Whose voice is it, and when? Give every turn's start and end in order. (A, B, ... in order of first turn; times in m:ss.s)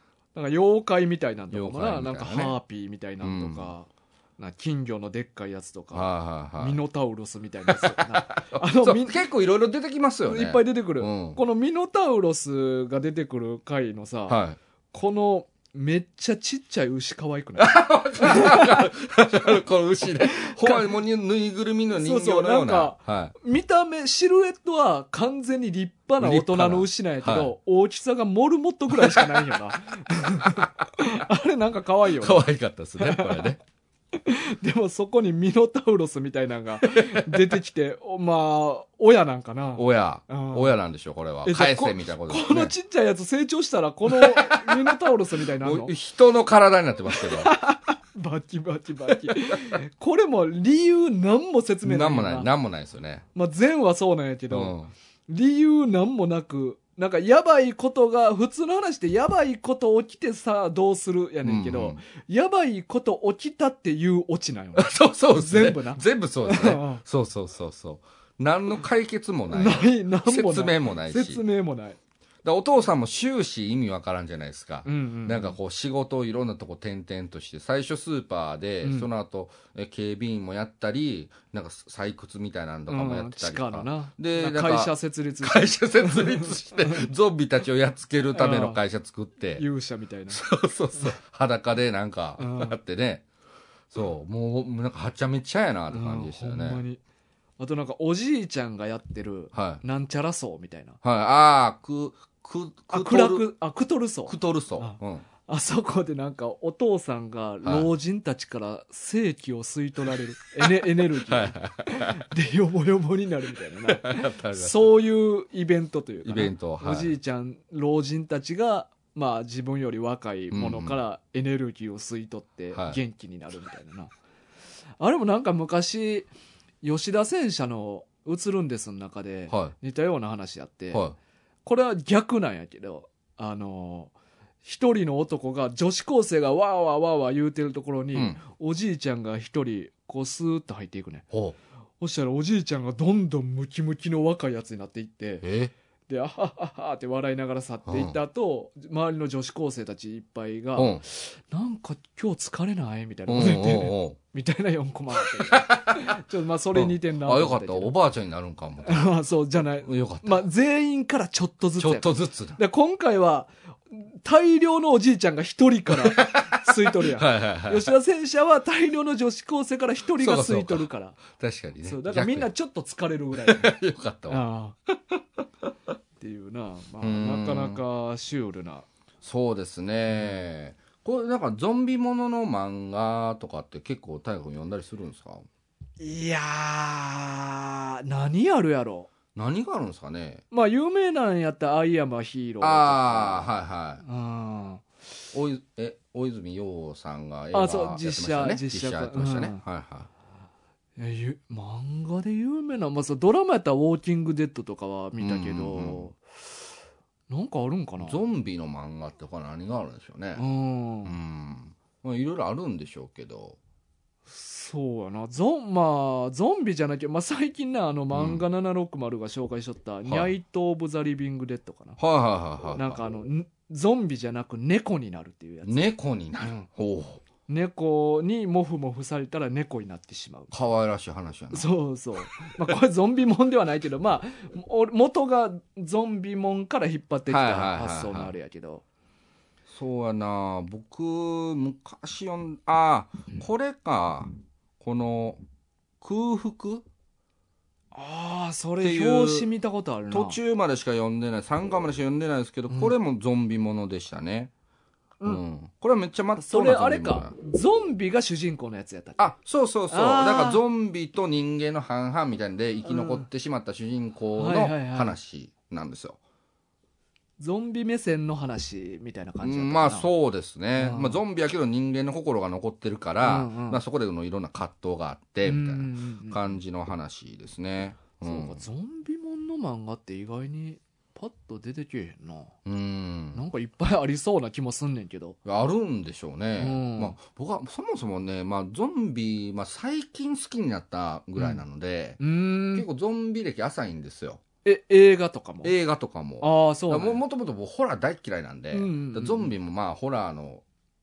0:00.4-0:09.2 A
0:01.5-0:02.6 B
0:03.2-0:03.7 B
0:05.9-0:06.8 B
0:07.7-0:11.4 B
0:10.3-0:14.4 A
0:14.3-0:14.6 B
0:14.9-0:18.9 A
0:17.6-0:23.3 B
0:20.2-0:20.9 A
0:21.9-0:32.5 A
0:26.2-0:27.5 B
0:28.9-0:29.6 B
0:32.2-0:33.6 B
0:33.0-0:33.5 A
0:34.1-0:40.8 A
0:37.0-0:37.6 B
0:39.8-0:42.7 B
0:41.4-0:45.9 A
0:44.1-0:45.0 B
0:45.6-0:47.5 B
0:47.2-0:52.5 A
0:49.2-0:49.8 B
0:51.8-0:53.2 B
0:53.4-0:54.8 A
0:54.5-0:54.9 B
0:55.3-1:07.0 A
1:01.4-1:02.0 B
1:04.8-1:11.4 B
1:09.5-1:12.0 A
1:12.4-1:29.6 B
1:14.8-1:15.6 A
1:18.8-1:19.1 A
1:22.9-1:27.1 A
1:28.3-1:28.8 A
1:29.6-1:30.4 A
1:30.3-1:33.2 B
1:32.4-1:32.8 A
1:33.9-1:36.8 B
1:35.9-1:37.0 A
1:37.6-1:41.0 A
1:39.5-1:39.8 B
1:41.0-1:43.5 B
1:42.9-2:04.1 A
1:44.3-1:45.3 B
1:51.1-1:52.2 B
1:53.8-1:54.9 B
1:56.2-1:57.1 B
2:00.5-2:01.0 B
2:02.7-2:03.0 B
2:05.0-2:06.3 A
2:06.8-2:11.0 A
2:11.6-2:14.1 A
2:14.6-2:21.2 A
2:18.1-2:18.4 B
2:22.0-2:25.4 A
2:25.4-2:25.7 B
2:26.1-2:37.9 A
2:27.9-2:28.2 B
2:30.8-2:31.0 B
2:33.3-2:34.2 B
2:35.4-2:36.1 B
2:36.7-2:39.1 B
2:38.8-2:51.2 A
2:39.8-2:40.4 B
2:41.8-2:42.6 B
2:45.9-2:47.9 B
2:50.2-2:52.5 B
2:51.8-2:53.8 A
2:53.4-2:54.4 B
2:54.3-2:54.8 A
2:56.2-2:58.9 A
2:57.0-2:57.8 B
2:59.2-3:05.4 B
3:06.0-3:09.1 A
3:09.4-3:10.4 B
3:10.5-3:13.5 A
3:12.6-3:14.0 B
3:14.0-3:14.8 A
3:15.3-3:20.1 B
3:17.5-3:19.6 A
3:21.0-3:26.2 A
3:25.2-3:26.1 B
3:27.3-3:28.2 A
3:28.0-3:30.4 B
3:30.4-3:31.1 A
3:31.0-3:33.6 B
3:34.3-3:42.0 A
3:38.1-3:38.4 B
3:42.0-3:43.0 B
3:42.7-3:45.8 A
3:45.6-3:47.2 B
3:46.4-3:46.7 A
3:47.5-3:50.5 A
3:50.5-3:51.7 B
3:51.5-3:58.8 A
3:57.3-3:58.3 B
3:59.7-4:05.4 B
4:06.0-4:06.8 B
4:07.9-4:10.4 A
4:08.8-4:09.5 B
4:10.1-4:14.5 B
4:12.7-4:12.9 A
4:15.2-4:17.4 B
4:16.4-4:19.3 A
4:19.2-4:26.2 B
4:19.9-4:20.6 A
4:22.9-4:23.3 A
4:24.4-4:25.2 A
4:27.4-4:30.1 A
4:29.4-4:38.6 B
4:30.8-4:31.2 A
4:33.2-4:33.8 A
4:35.4-4:36.6 A
4:38.2-4:42.5 A
4:42.7-4:43.4 B
4:43.3-4:45.4 A
4:45.4-4:52.2 B
4:46.6-4:47.2 A
4:51.4-4:51.6 A
4:52.2-4:52.9 A
4:52.7-4:54.4 B
4:54.6-4:55.7 A
4:55.6-5:00.6 B
4:56.4-4:57.2 A
4:58.7-4:59.5 A